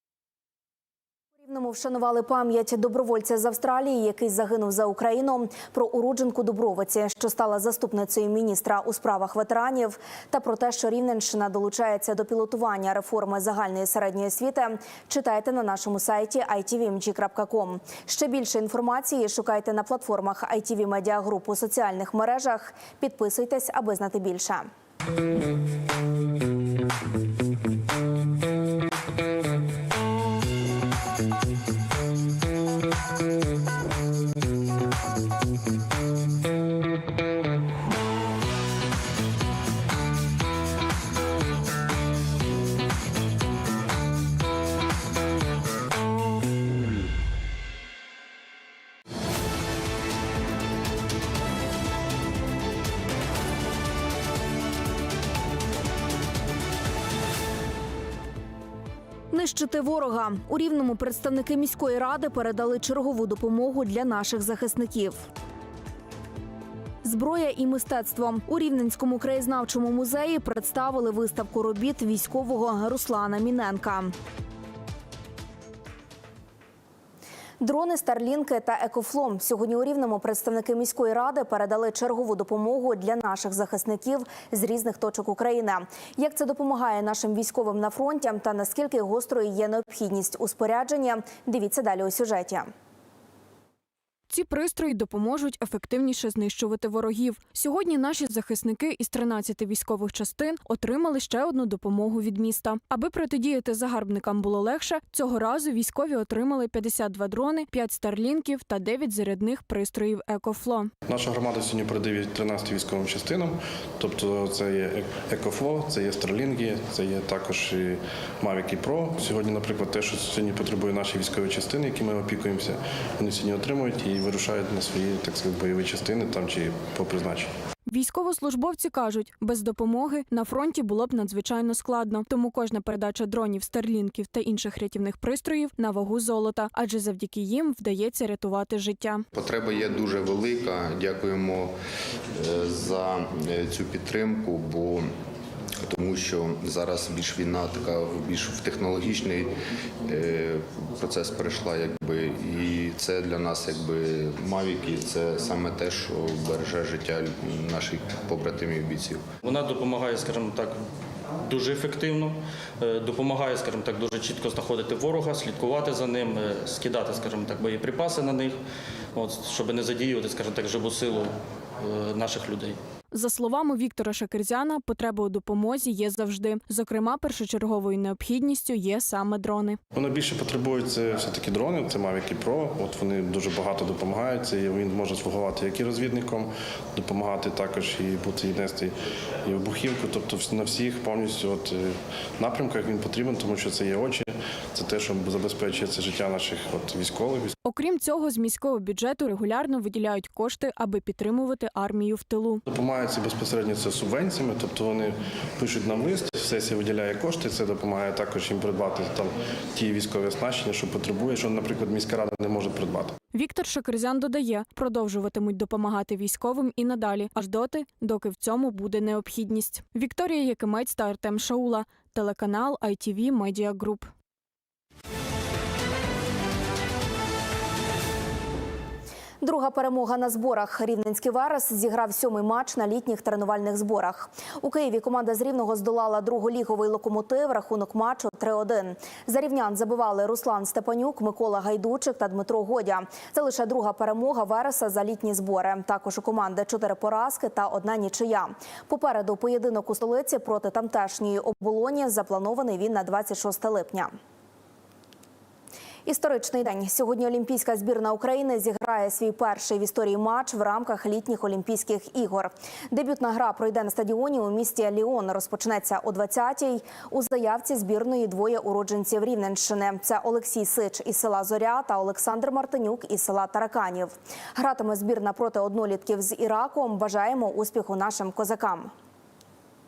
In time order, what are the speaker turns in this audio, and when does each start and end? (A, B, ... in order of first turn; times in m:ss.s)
0:01.4-0:24.7 A
0:59.3-1:05.2 A
1:07.0-1:14.1 A
1:17.6-1:32.7 A
1:34.3-1:50.9 B
1:51.1-2:07.5 C
2:07.9-2:19.2 B
2:19.3-2:21.7 D
2:22.4-2:25.1 D
2:25.9-2:29.5 D
2:30.0-2:39.3 D
2:39.4-2:40.7 E
2:41.4-2:48.5 E
2:49.2-2:51.3 E
2:51.8-2:52.8 E
2:53.1-2:59.8 B
2:59.9-3:08.9 C
3:09.5-3:17.5 C
3:17.6-3:22.6 B
3:22.7-3:33.2 C
3:33.3-3:44.1 B
3:49.4-4:14.1 A
4:16.0-4:38.9 A